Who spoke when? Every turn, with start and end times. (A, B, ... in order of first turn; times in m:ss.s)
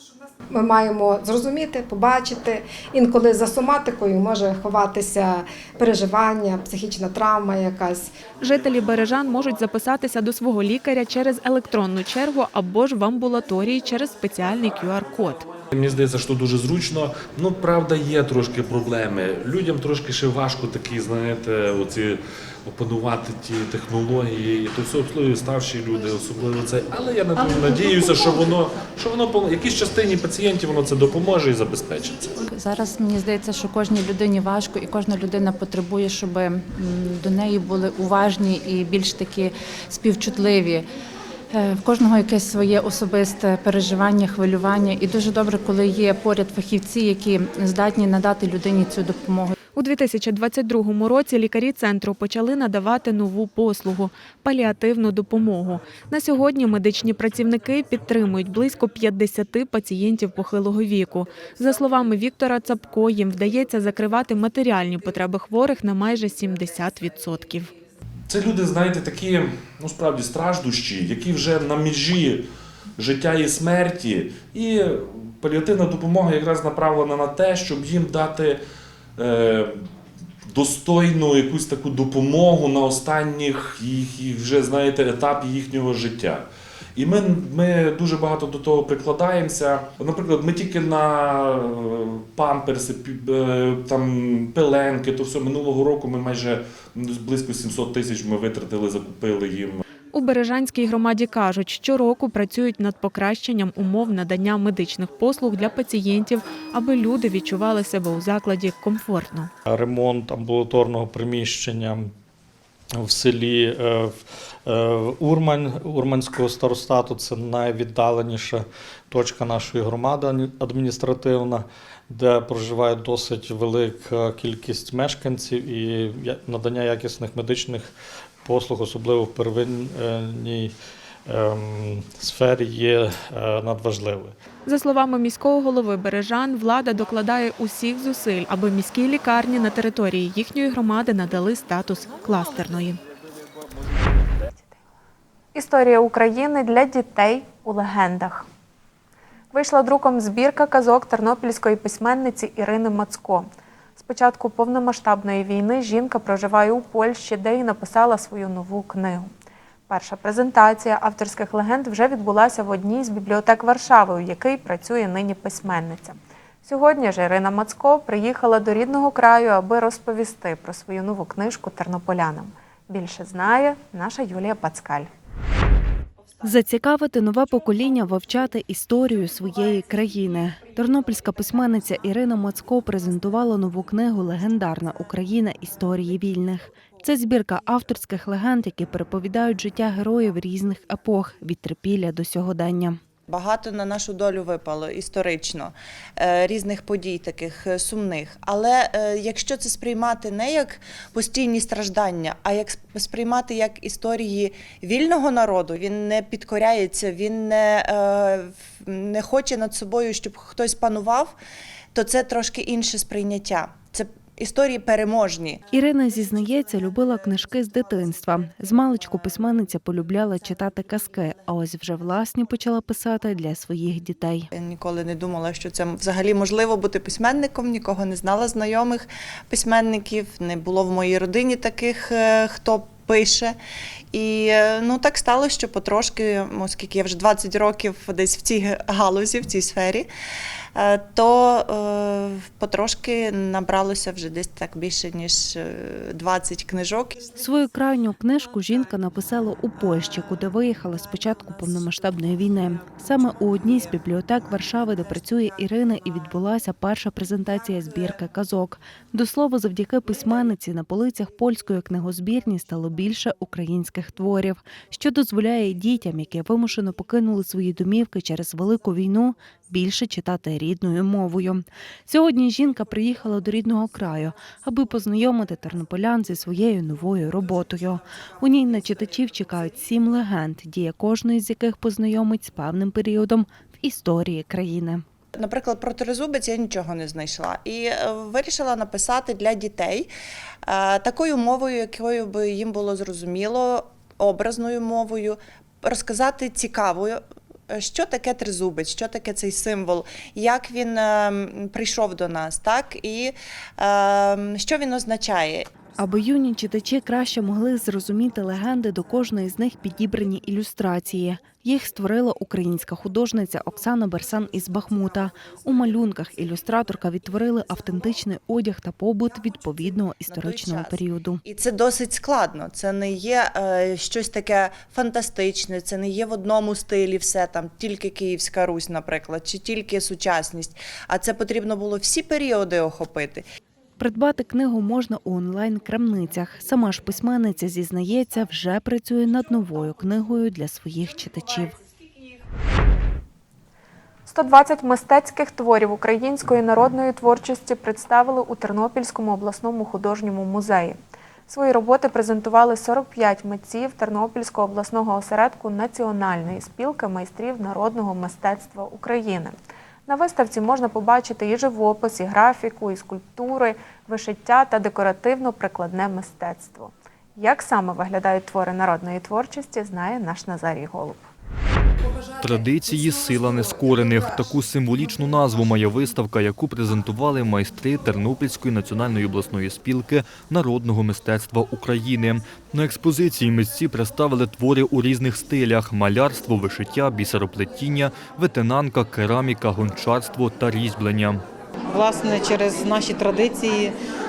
0:00.5-0:08.1 A
0:08.4-0:15.4 B
0:15.7-0:32.3 C
0:32.5-0:40.9 D
0:41.5-0:49.5 D
0:49.7-1:07.7 B
1:08.3-1:12.4 C
1:13.0-1:18.6 C
1:19.2-1:19.7 C
1:20.5-1:26.4 C
1:27.0-1:39.8 C
1:40.1-1:49.5 B
1:49.6-1:52.1 E
1:53.0-2:07.9 E
2:08.4-2:10.7 E
2:11.3-2:14.3 E
2:14.6-2:23.0 B
2:25.5-2:28.5 B
2:29.5-2:39.3 B
2:39.9-2:55.1 B
2:56.4-3:13.0 F
3:13.3-3:31.3 G
3:31.9-3:35.6 G
3:35.7-3:44.5 F
3:44.5-3:53.5 G
3:54.1-4:00.1 G
4:00.8-4:07.1 G
4:07.4-4:45.0 F
4:45.4-4:50.1 G
4:50.7-5:05.7 G
5:06.0-5:21.4 F
5:20.3-5:33.4 G
5:34.0-5:41.8 F
5:44.3-5:51.0 B
5:51.5-5:59.5 B
6:00.1-6:11.2 B
6:12.4-6:31.4 H
6:31.9-6:33.9 I